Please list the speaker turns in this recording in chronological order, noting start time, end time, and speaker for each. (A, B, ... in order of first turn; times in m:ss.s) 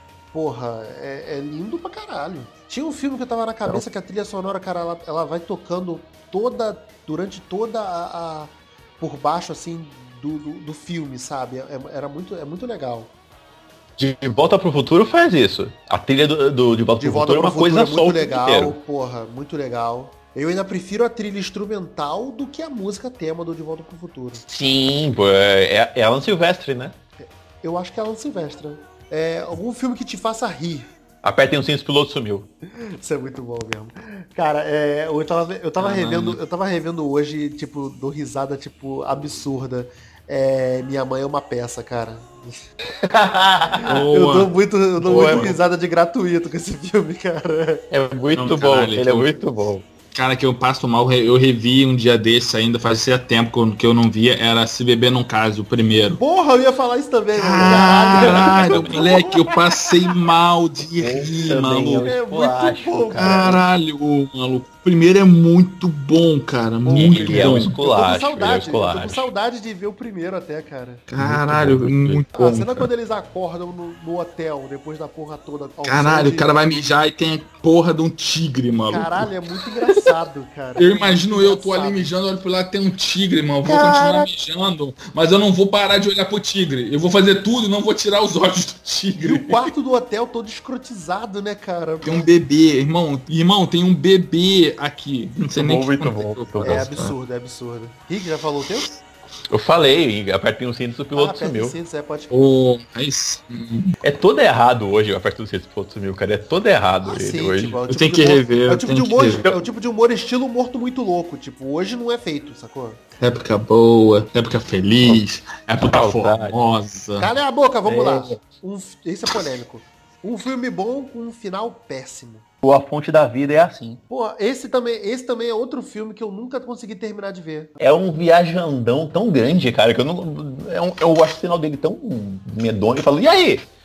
0:00.3-0:13.1 A
0:14.0-0:18.8 B
0:17.0-0:24.4 A
0:24.5-0:27.0 B
0:27.2-0:30.9 A
0:31.2-0:32.5 B
0:32.7-0:42.6 A
0:35.8-0:36.4 C
0:43.0-0:44.1 B
0:43.9-0:44.5 C
0:44.1-0:47.9 A
0:45.0-0:45.6 B
0:45.0-0:45.6 C
0:47.9-0:49.8 B
0:48.3-0:49.3 C
0:50.1-0:56.2 C
0:56.2-0:59.2 A
0:57.4-1:02.1 C
0:57.6-0:59.5 B
1:01.0-1:03.6 B
1:02.0-1:03.6 A
1:03.2-1:07.7 C
1:06.8-1:11.0 A
1:06.9-1:09.3 B
1:11.1-1:12.9 C
1:11.2-1:12.2 B
1:12.4-1:16.6 A
1:15.8-1:20.1 C
1:18.9-1:22.1 A
1:20.8-1:29.7 C
1:23.6-1:24.3 A
1:29.2-1:32.2 A
1:32.0-1:37.1 C
1:35.6-1:37.1 B
1:36.6-1:38.9 A
1:39.5-1:41.8 B
1:41.2-1:42.3 A
1:42.3-1:43.9 C
1:44.0-1:47.8 B
1:47.0-1:53.0 A
1:47.9-1:49.5 C
1:53.2-1:57.3 C
1:55.8-1:56.6 B
1:57.2-2:02.4 A
1:57.8-1:58.4 B
2:02.6-2:04.0 B
2:04.1-2:07.7 A
2:07.8-2:13.7 B